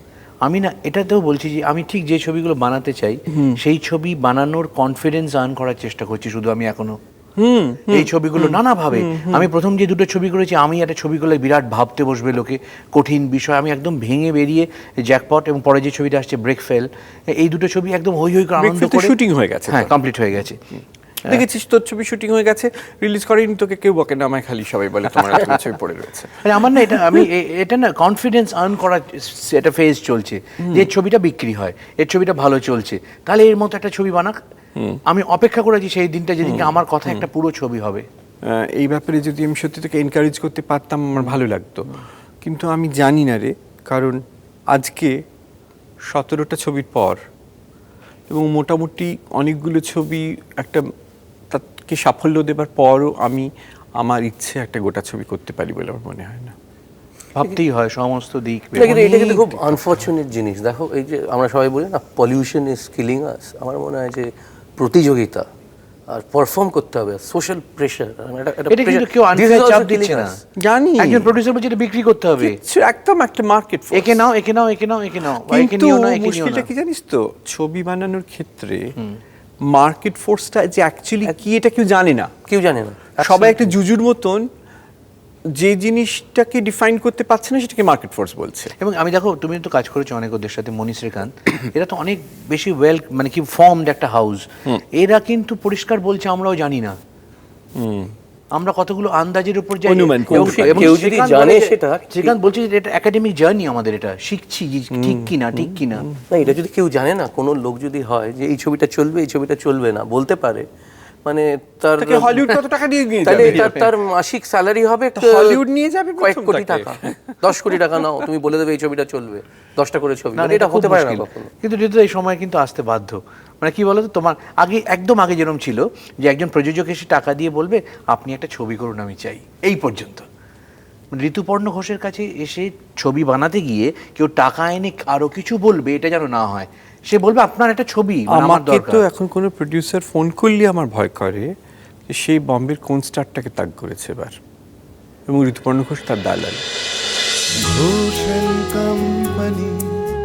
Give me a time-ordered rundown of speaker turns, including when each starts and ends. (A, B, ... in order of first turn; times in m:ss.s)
0:00.4-0:07.0 A
0:03.3-0:03.6 B
0:07.4-0:09.5 B
0:07.9-0:20.6 A
0:18.6-0:19.9 B
0:21.3-0:27.2 B
0:26.4-0:34.4 A
0:30.6-0:30.9 B
0:35.1-0:38.0 A
0:36.4-0:36.8 B
0:38.5-0:44.2 B
0:44.7-0:45.1 B
0:46.1-0:47.2 B
0:48.3-0:50.8 B
0:51.5-0:56.6 B
0:57.4-0:59.8 A
0:58.7-1:05.4 C
1:06.1-1:10.4 C
1:08.7-1:10.3 A
1:10.6-1:11.3 B
1:11.0-1:12.6 A
1:12.4-1:14.3 B
1:13.9-1:16.7 A
1:15.5-1:18.9 B
1:19.7-1:22.3 B
1:22.5-1:23.3 C
1:23.2-1:24.5 B
1:23.3-1:23.7 A
1:25.6-1:28.8 B
1:28.8-1:37.0 A
1:37.8-1:38.1 B
1:38.5-1:46.1 A
1:39.8-1:41.0 B
1:40.3-1:42.4 C
1:44.9-1:46.2 B
1:46.3-1:50.6 C
1:51.2-1:52.6 C
1:52.0-1:53.9 B
1:53.2-1:55.6 C
1:55.2-1:57.8 B
1:56.2-2:01.5 C
2:00.4-2:10.3 A
2:11.1-2:19.0 A
2:18.3-2:21.5 B
2:22.1-2:24.4 B
2:25.3-2:26.6 B
2:27.6-2:29.9 D